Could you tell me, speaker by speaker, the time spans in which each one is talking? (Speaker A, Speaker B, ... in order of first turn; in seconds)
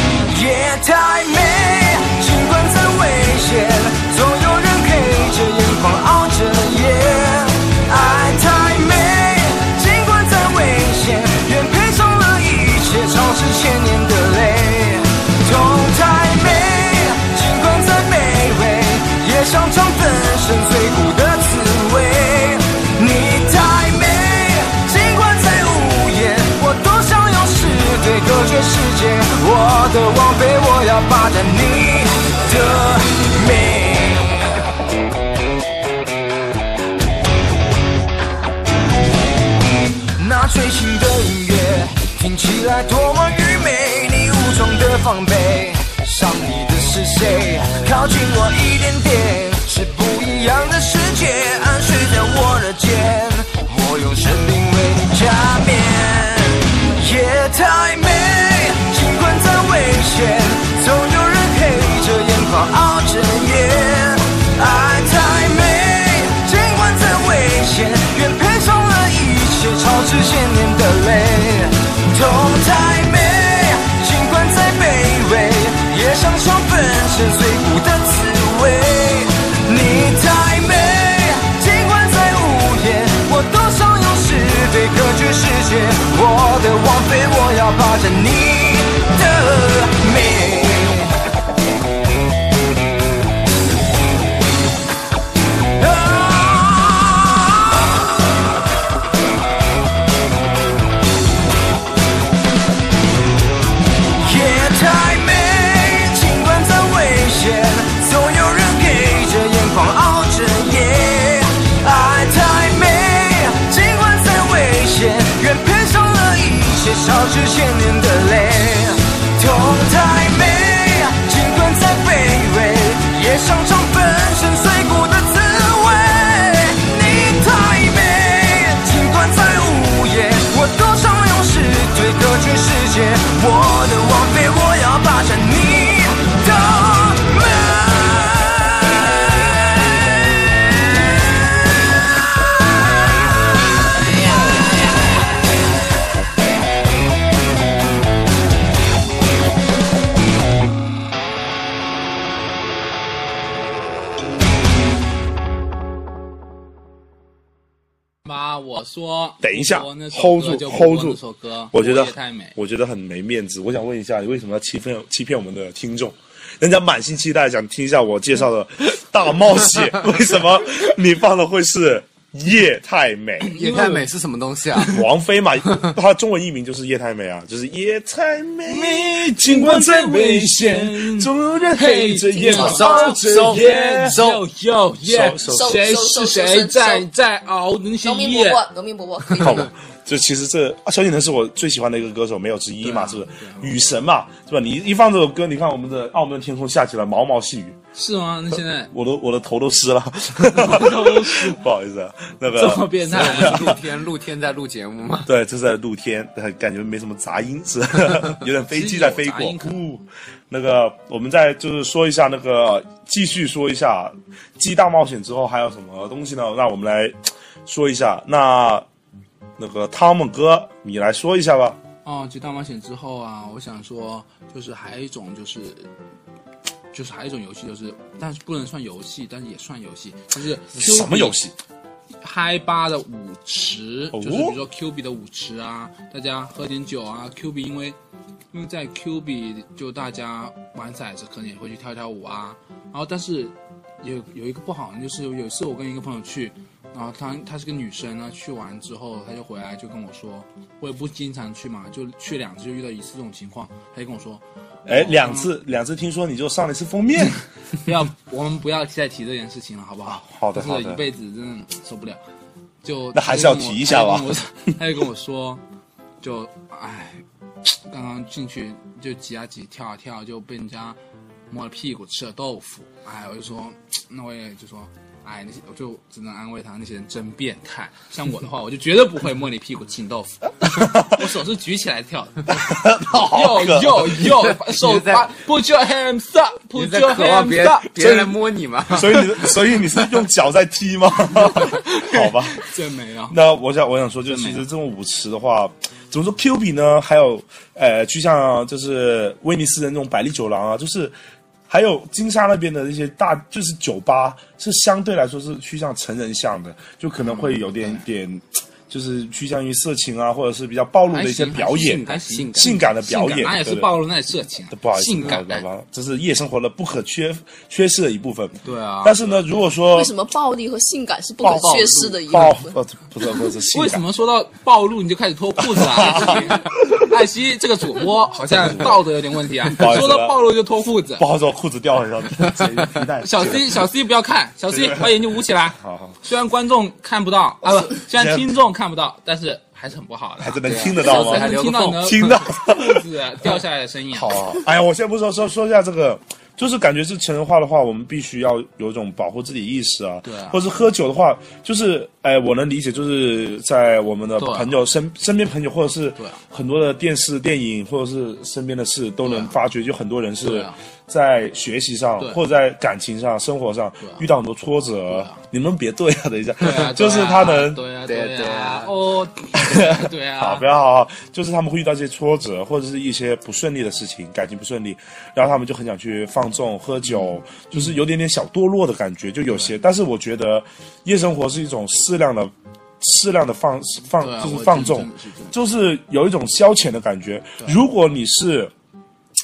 Speaker A: 0.3-34.4, 40.1-91.1, 95.8-97.6, 104.2-140.8
Speaker B: 158.2-162.6, 173.4-174.0, 178.7-188.6, 192.8-193.7, 197.9-198.9, 200.5-201.6, 202.5-203.8, 208.7-209.8, 222.0-225.9, 226.9-231.4, 232.2-237.9, 238.5-255.5, 257.8-262.2, 262.8-265.6, 266.2-271.0, 271.5-287.9, 291.3-293.4, 294.2-294.6, 307.2-308.0, 311.1-315.6, 318.6-319.2, 323.7-331.2, 333.2-344.5, 350.2-350.6, 354.4-354.8, 359.2-359.6, 360.4-360.8, 364.0-364.3, 365.1-365.4, 366.6-370.6, 377.0-378.0, 379.5-379.7, 384.1-385.5
Speaker C: 159.4-161.2, 161.7-173.5, 174.9-184.2, 185.0-185.8, 189.3-197.8, 198.9-203.8, 205.2-218.8, 219.6-221.8, 230.7-231.5, 234.1-234.6, 254.8-257.4, 260.1-261.0, 263.1-264.4, 280.7-281.1, 282.6-284.3, 288.0-288.3, 288.9-292.6, 293.3-301.1, 301.7-313.9, 314.7-320.1, 321.4-324.0, 325.6-327.1, 328.6-329.0, 329.7-330.4, 331.2-333.8, 334.7-336.2, 337.8-338.4, 340.4-343.0, 344.1-367.8, 369.6-388.7
Speaker D: 173.5-175.0, 182.5-184.4, 203.1-205.3, 284.3-285.3, 286.7-290.2, 312.0-312.8, 321.6-322.2, 340.6-342.3, 368.0-368.9
Speaker E: 185.5-187.1, 188.0-189.7, 319.9-322.7